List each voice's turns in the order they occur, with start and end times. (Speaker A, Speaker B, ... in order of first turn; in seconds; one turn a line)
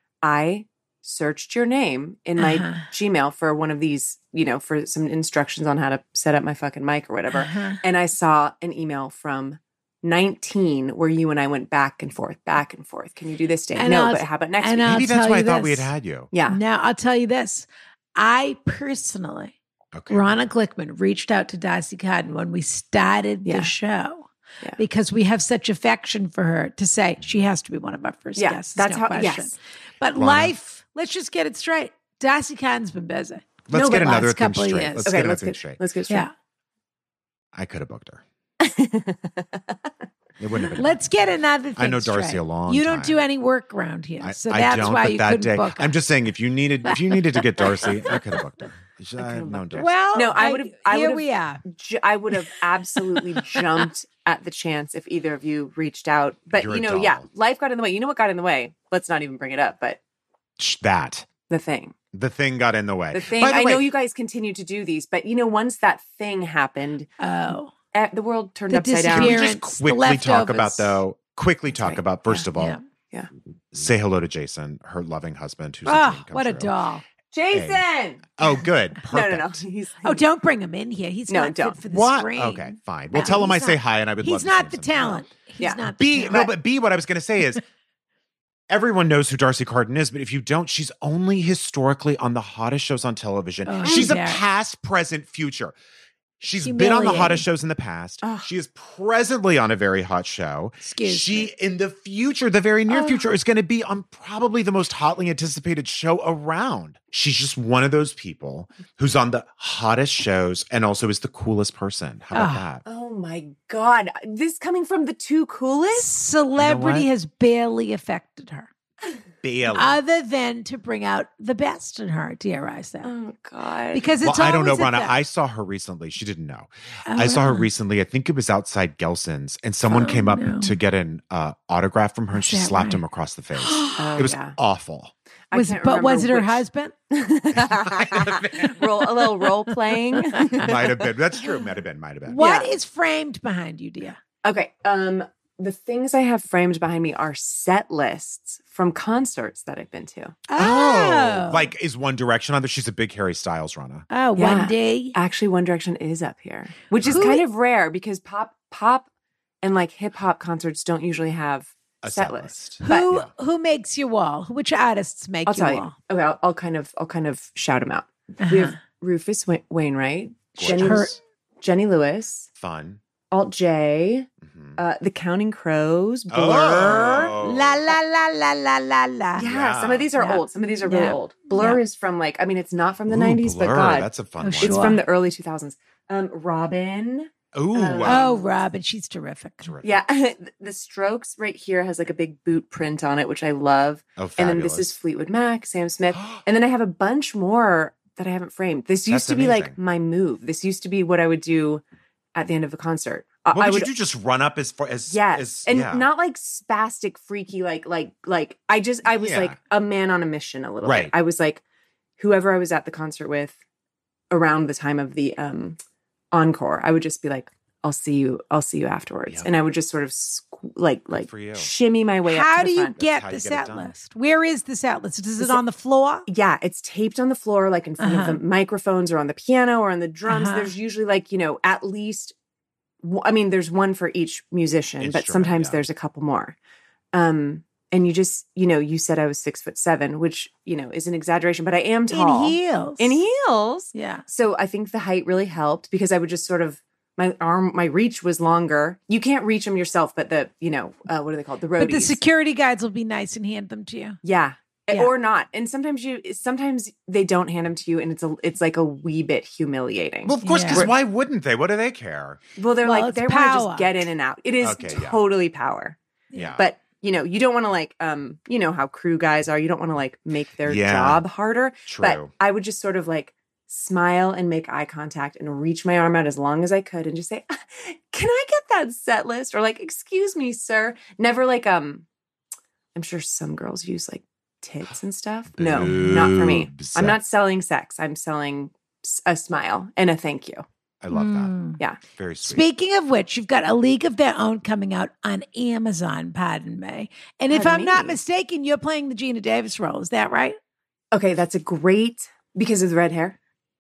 Speaker A: 0.2-15.0
Speaker B: 2.4-2.9
Speaker B: 7.3-7.8
Speaker B: 13.8-15.9
Speaker C: 14.8-16.3
Speaker A: 16.3-16.6
Speaker B: 16.4-19.5
Speaker C: 19.9-20.4
Speaker B: 20.1-35.1
Speaker A: 23.4-23.7
Speaker A: 28.4-29.6
Speaker C: 30.1-30.5
Speaker C: 33.7-35.8
Speaker A: 33.7-34.3
Speaker A: 35.0-36.3
Speaker C: 37.5-38.2
Speaker A: 38.6-39.8
Speaker C: 40.4-41.1
Speaker B: 40.8-45.9
Speaker C: 41.8-43.2
Speaker C: 44.2-49.9
Speaker A: 47.8-48.2
Speaker A: 49.2-60.0
Speaker B: 49.8-51.6
Speaker C: 56.5-57.3
Speaker C: 60.6-61.3
Speaker A: 61.5-62.0
Speaker C: 62.1-63.9
Speaker A: 63.1-67.1
Speaker B: 67.2-67.7
Speaker A: 67.9-69.5
Speaker B: 68.7-71.0
Speaker C: 69.1-72.8
Speaker A: 71.8-72.5
Speaker B: 72.6-72.8
Speaker C: 73.7-76.7
Speaker B: 75.9-77.0
Speaker A: 77.3-78.4
Speaker C: 77.5-77.8
Speaker C: 78.4-79.6
Speaker A: 79.1-80.2
Speaker B: 80.0-86.5
Speaker A: 81.3-81.8
Speaker C: 81.9-85.2
Speaker A: 85.6-86.5
Speaker C: 86.0-87.6
Speaker C: 88.7-95.8
Speaker B: 93.7-94.4
Speaker C: 96.4-112.8
Speaker B: 96.6-97.5
Speaker A: 98.2-98.5
Speaker B: 100.8-101.5
Speaker A: 102.9-103.2
Speaker B: 112.3-112.7
Speaker A: 112.8-116.1
Speaker B: 115.9-118.7
Speaker C: 116.6-117.1
Speaker C: 119.4-120.0
Speaker B: 119.7-123.1
Speaker A: 123.0-124.1
Speaker B: 123.9-125.2
Speaker C: 124.2-135.1
Speaker B: 127.1-127.7
Speaker B: 129.9-130.8
Speaker B: 132.3-133.0
Speaker B: 133.6-134.2
Speaker A: 133.9-134.6
Speaker A: 135.5-141.1
Speaker B: 135.5-136.9
Speaker C: 137.6-138.9
Speaker B: 140.1-140.6
Speaker C: 140.5-142.4
Speaker B: 142.3-144.2
Speaker A: 142.4-142.7
Speaker A: 144.4-150.4
Speaker B: 150.5-151.7
Speaker C: 150.6-154.1
Speaker B: 154.1-155.2
Speaker A: 154.4-159.1
Speaker B: 157.1-157.4
Speaker A: 159.6-163.1
Speaker C: 162.0-163.3
Speaker B: 162.8-165.9
Speaker A: 165.5-172.5
Speaker B: 168.4-168.8
Speaker C: 170.6-171.2
Speaker B: 170.6-171.2
Speaker C: 172.6-173.0
Speaker A: 173.3-177.4
Speaker C: 174.4-174.8
Speaker C: 176.3-177.8
Speaker B: 176.9-179.5
Speaker A: 179.4-188.4
Speaker C: 179.4-180.1
Speaker B: 180.2-181.8
Speaker C: 183.1-184.9
Speaker B: 184.4-185.0
Speaker C: 187.5-188.3
Speaker B: 188.0-189.7
Speaker C: 189.6-190.0
Speaker A: 189.8-201.8
Speaker C: 194.2-194.9
Speaker C: 196.2-196.4
Speaker C: 199.1-199.8
Speaker A: 202.3-203.9
Speaker C: 203.5-206.1
Speaker A: 205.1-211.6
Speaker C: 209.2-209.6
Speaker C: 210.8-211.1
Speaker A: 212.2-213.6
Speaker A: 214.3-215.8
Speaker A: 216.3-223.0
Speaker C: 221.2-221.7
Speaker B: 222.2-226.3
Speaker C: 223.0-223.9
Speaker A: 226.3-232.4
Speaker B: 228.0-228.4
Speaker B: 230.3-230.7
Speaker A: 233.0-236.6
Speaker C: 235.0-235.8
Speaker A: 237.1-252.2
Speaker B: 242.1-243.2
Speaker B: 243.9-244.2
Speaker B: 251.8-254.2
Speaker A: 254.2-260.9
Speaker C: 260.2-262.4
Speaker B: 260.4-260.9
Speaker A: 262.6-266.0
Speaker B: 262.8-264.0
Speaker C: 264.6-265.2
Speaker B: 266.3-266.6
Speaker C: 266.4-266.6
Speaker A: 266.6-282.1
Speaker C: 270.6-271.2
Speaker C: 271.9-272.3
Speaker A: 282.9-290.6
Speaker C: 285.6-287.2
Speaker C: 291.0-292.7
Speaker B: 291.1-291.8
Speaker B: 292.4-300.6
Speaker A: 297.5-298.2
Speaker A: 301.1-303.4